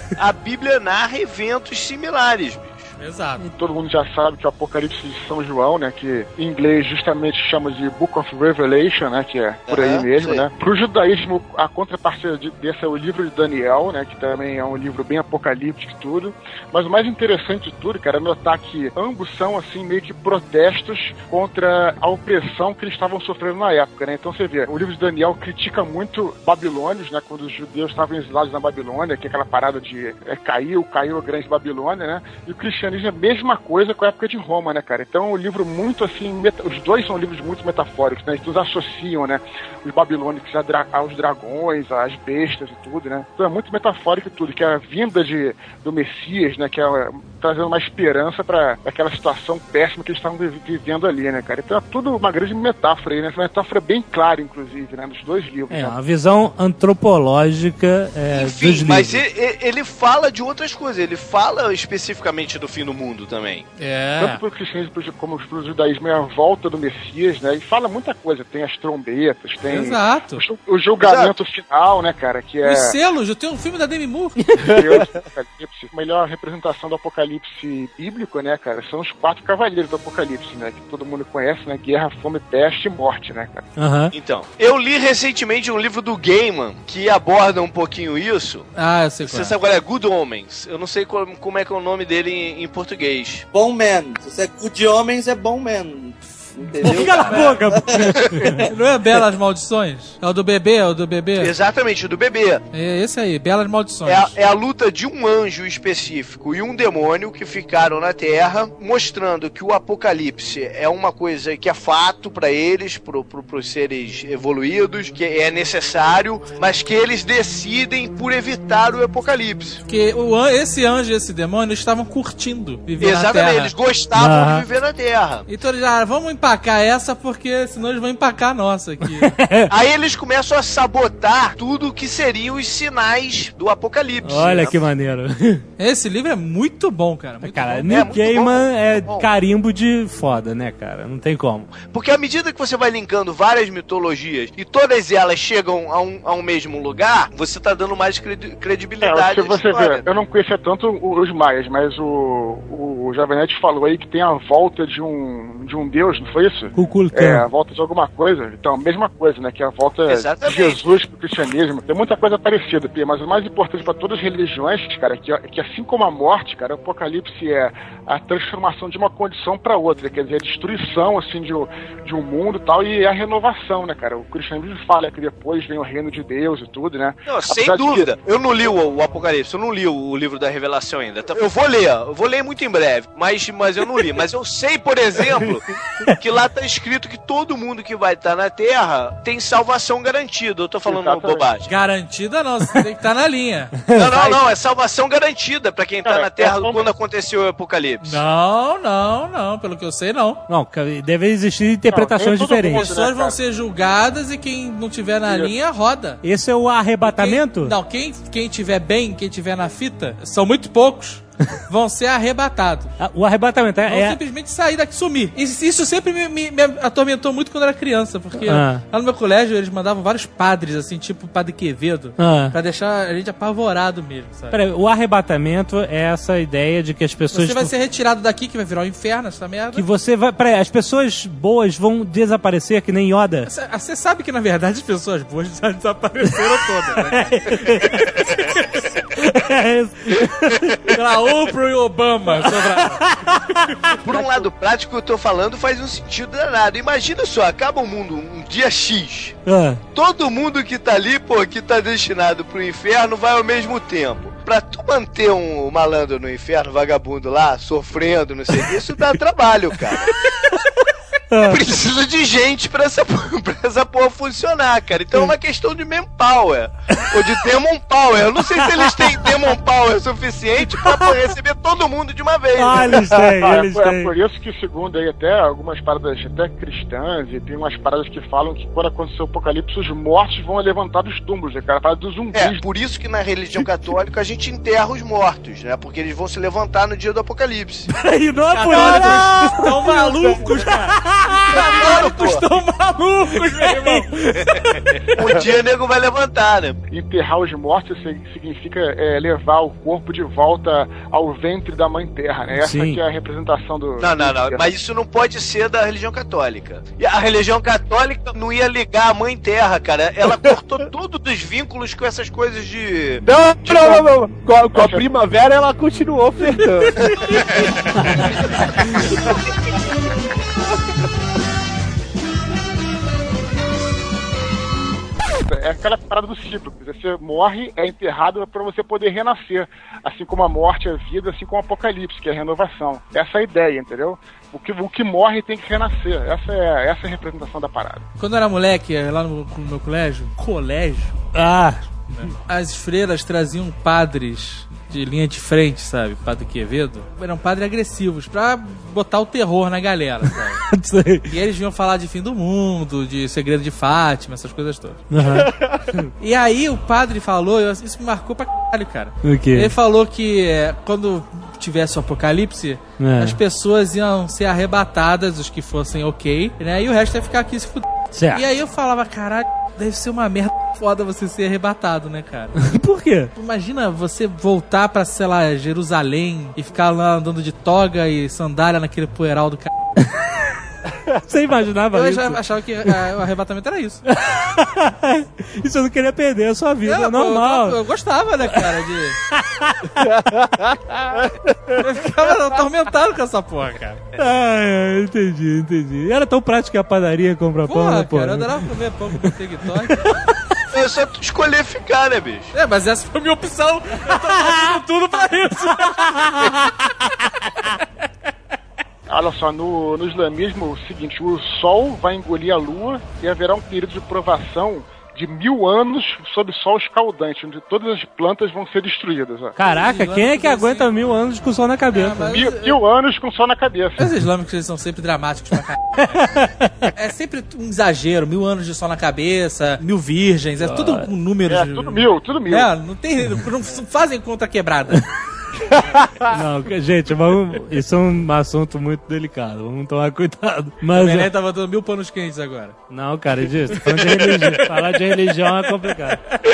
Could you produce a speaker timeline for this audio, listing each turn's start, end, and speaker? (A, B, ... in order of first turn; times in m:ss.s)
0:00.2-0:02.9 A
0:03.0-0:03.4 B
0:03.6-0:55.9 C
0:09.7-0:10.4 A
0:55.7-0:59.2 D
0:58.3-1:03.7 A
1:03.8-1:04.4 B
1:04.2-1:12.9 C
1:09.7-1:10.4 B
1:11.0-1:11.4 A
1:12.6-1:14.4 B
1:14.7-1:23.7 C
1:23.8-1:24.1 D
1:24.1-1:28.7 A
1:28.8-1:29.5 B
1:29.2-1:33.4 A
1:33.5-1:38.6 E
1:36.8-1:38.7 D
1:37.0-1:37.6 A
1:38.6-1:41.5 B
1:41.4-1:42.6 A
1:42.7-1:44.3 B
1:44.0-1:59.8 A
1:59.9-2:03.7 B
2:03.0-2:05.5 A
2:04.2-2:04.7 D
2:05.5-2:09.3 B
2:09.2-2:09.7 D
2:09.7-2:14.8 A
2:14.2-2:15.6 D
2:15.8-2:17.9 B
2:17.4-2:21.7 D
2:17.9-2:19.3 A
2:21.8-2:30.1 A
2:29.0-2:58.1 C
2:36.8-2:37.4 D
2:40.1-2:41.0 A
2:57.3-3:05.6 A
3:06.2-3:11.7 A
3:10.8-3:11.5 C
3:11.7-3:13.7 B
3:13.9-3:14.3 D
3:14.0-3:18.2 A
3:16.0-3:16.8 C
3:18.0-3:20.4 B
3:20.5-3:22.9 D
3:21.9-3:23.4 C
3:22.7-3:26.2 B
3:26.2-3:27.8 D
3:27.0-3:33.0 B
3:33.0-3:34.2 D
3:33.9-3:44.6 B
3:38.4-3:38.8 D
3:42.2-3:42.6 D
3:44.5-3:47.7 D
3:47.3-3:49.9 B
3:49.7-3:53.5 D
3:53.5-3:58.4 B
3:57.1-3:58.3 D
3:59.2-4:01.0 D
4:00.9-4:03.0 B
4:02.4-4:03.8 D
4:03.8-4:04.2 B
4:04.0-4:09.4 A
4:09.5-4:09.8 D
4:09.9-4:20.1 A
4:21.3-4:21.6 D
4:21.4-4:33.3 A
4:27.0-4:27.4 D
4:28.4-4:29.5 D
4:30.6-4:31.2 D
4:32.6-4:34.1 D
4:33.2-4:42.6 C
4:42.3-4:47.9 A
4:48.0-4:52.1 D
4:48.5-4:50.9 B
4:51.5-4:54.1 B
4:51.5-4:52.4 A
4:53.3-4:55.0 D
4:55.1-4:56.8 A
4:56.9-5:04.7 C
5:02.6-5:03.0 D
5:04.0-5:13.9 A
5:13.2-5:17.0 F
5:13.7-5:14.0 C
5:14.7-5:15.0 C
5:25.4-5:38.0 C
5:38.2-5:41.2 B
5:41.3-5:42.3 D
5:42.1-5:50.6 B
5:50.7-5:51.3 D
5:51.3-5:55.1 B
5:55.1-5:56.1 D
5:56.2-6:12.6 B
5:59.2-5:59.7 D
6:03.0-6:03.4 D
6:08.1-6:08.4 D
6:12.6-6:13.3 D
6:13.4-6:19.7 B
6:20.0-6:20.6 D
6:21.3-6:22.9 D
6:21.9-6:24.0 B
6:24.1-6:27.8 D
6:26.9-6:29.2 B
6:29.3-6:30.1 D
6:30.0-6:31.2 F
6:31.8-6:34.0 B
6:34.2-6:38.7 D
6:37.7-6:40.1 B
6:39.9-6:40.3 D
6:40.7-6:42.5 A
6:42.5-6:46.1 B
6:44.1-6:44.7 D
6:45.8-6:46.6 D
6:49.1-6:59.6 C
6:59.6-7:02.3 D
6:59.7-7:00.9 B
7:01.9-7:02.8 B
7:02.3-7:04.1 C
7:04.0-7:06.3 B
7:06.2-7:06.9 D
7:06.9-7:15.1 B
7:10.6-7:11.1 D
7:11.5-7:12.7 C
7:16.3-7:21.3 D
7:20.9-7:22.8 B
7:22.9-7:26.2 D
7:24.1-7:24.4 B